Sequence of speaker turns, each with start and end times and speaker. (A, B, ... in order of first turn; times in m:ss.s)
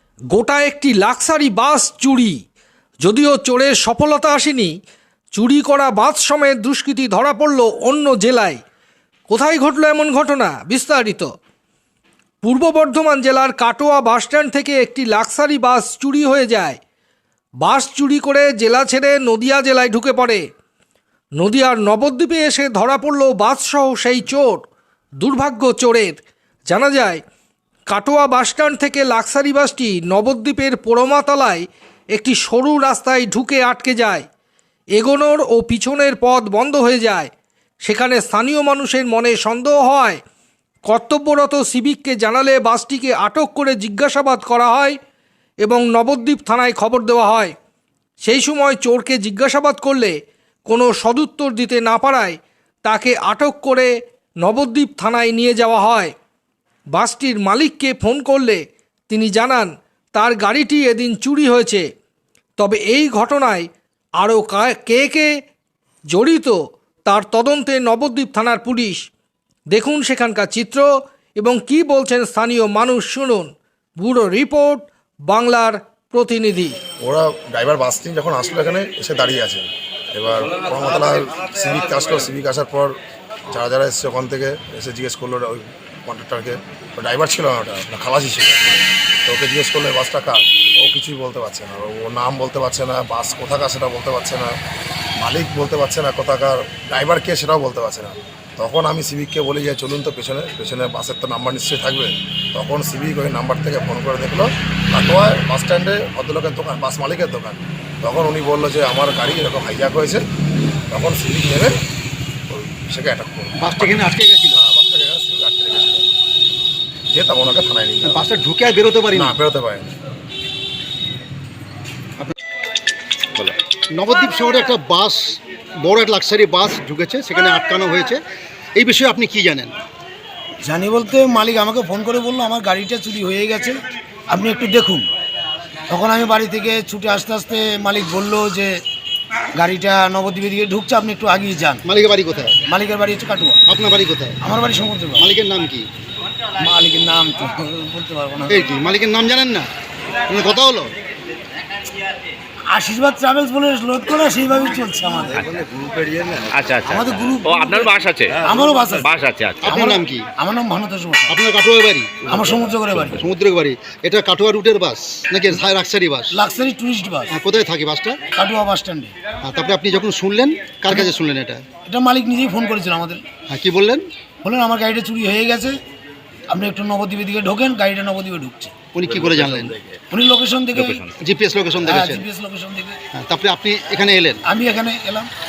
0:00.3-0:02.4 A
0:03.0-0:04.7 A
0:05.3-0:08.6 A
0:09.3-0:11.3 A
0:12.4-0:16.8 A
0:17.6-0:20.4 A
0:21.4-0:24.6 A
0:25.2-0:26.2 A
0:26.7-0:27.2 A
0:27.9-0:34.2 A
0:35.0-0:37.3 A
0:37.8-0:40.2 A
0:40.9-0:45.0 A
0:45.6-0:47.5 A
0:48.2-0:50.1 A
0:50.7-0:53.9 A
0:54.4-0:56.1 A
0:56.9-1:01.8 A
1:02.6-1:03.7 A
1:04.2-1:05.3 A
1:06.1-1:09.0 A
1:09.7-1:16.8 A
1:17.0-1:22.9 B
1:23.5-1:34.5 B
1:35.2-1:50.2 B
1:50.9-1:51.7 B
1:52.5-1:54.0 B
1:53.6-1:54.6 C
1:54.5-1:56.1 B
1:57.1-1:58.3 B
1:58.0-1:59.4 C
1:59.1-1:59.9 B
2:03.9-2:08.2 C
2:08.8-2:09.7 C
2:10.6-2:13.8 D
2:14.3-2:15.1 D
2:15.9-2:18.8 D
2:19.6-2:21.8 D
2:21.8-2:22.6 C
2:22.6-2:23.6 D
2:23.7-2:24.4 C
2:24.4-2:25.3 D
2:25.2-2:25.8 C
2:26.6-2:28.6 D
2:28.5-2:29.7 C
2:30.3-2:30.9 C
2:32.7-2:35.6 D
2:36.5-2:38.5 E
2:36.8-2:39.1 D
2:39.0-2:39.7 E
2:39.6-2:40.2 C
2:39.6-2:41.4 D
2:41.3-2:42.2 C
2:42.3-2:43.2 D
2:43.2-2:46.3 C
2:46.3-2:47.3 D
2:47.3-2:48.2 C
2:48.3-2:49.1 D
2:49.4-2:51.6 C
2:51.8-2:53.2 D
2:53.5-2:54.0 C
2:54.4-2:55.8 D
2:56.5-2:58.7 D
2:58.9-2:59.8 C
3:00.1-3:01.1 D
3:00.7-3:01.2 E
3:01.2-3:02.2 C
3:01.8-3:03.0 D
3:03.2-3:04.4 C
3:04.4-3:05.3 D